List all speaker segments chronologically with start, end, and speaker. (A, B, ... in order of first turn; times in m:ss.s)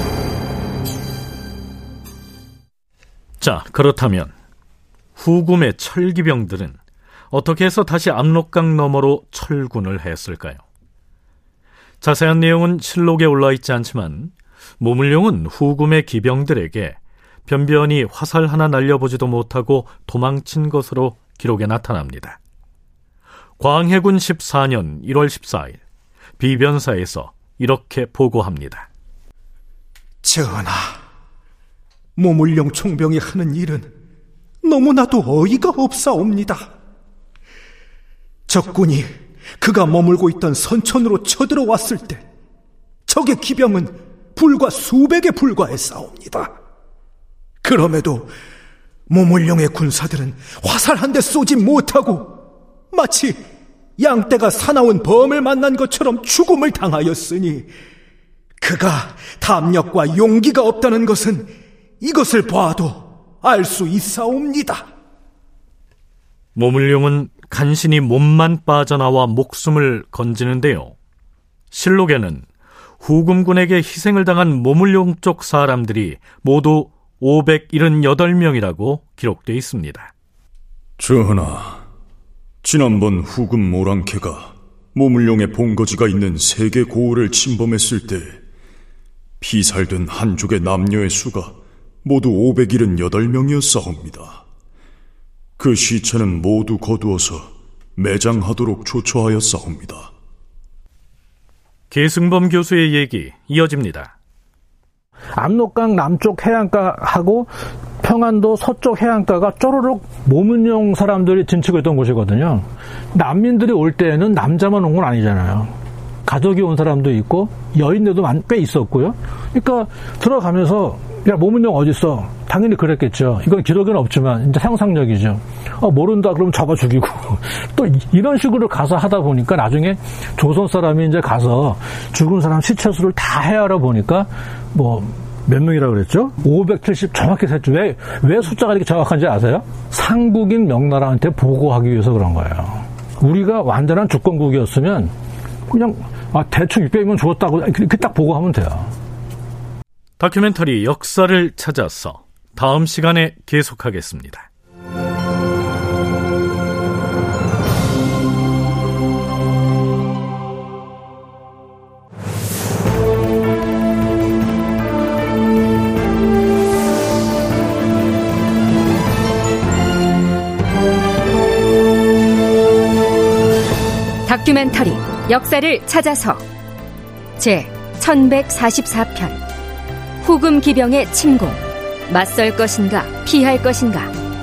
0:03.4-0:04.3 A
0:05.2-0:06.8 A
0:07.3-0:10.6 A
0:12.0-0:22.4 A
0:23.6-0:25.8 A
0:26.4-0:28.9 A
0:30.2-0:31.0 B
0:32.2-0:33.9 B
0:34.6-0:36.7 B
0:38.5-0:39.1 B
0:39.6-0:42.2 B
0:43.1-0:46.5 B
0:47.6-0:48.3 B
0:49.1-0:52.4 B
0:52.9-0:53.4 B
0:54.0-0:57.7 B
0:58.6-1:04.8 B
1:06.6-1:11.0 A
1:11.7-1:12.4 A
1:13.0-1:20.1 A
1:21.0-1:21.8 C
1:22.6-1:28.4 C
1:29.4-1:34.4 C
1:35.6-1:40.1 C
1:41.9-1:44.1 A
1:45.4-1:55.7 D
1:56.3-2:25.1 D
2:25.7-2:28.9 D
2:30.2-2:34.5 A
2:54.2-2:56.4 E
2:57.4-2:59.4 E
3:00.2-3:04.1 E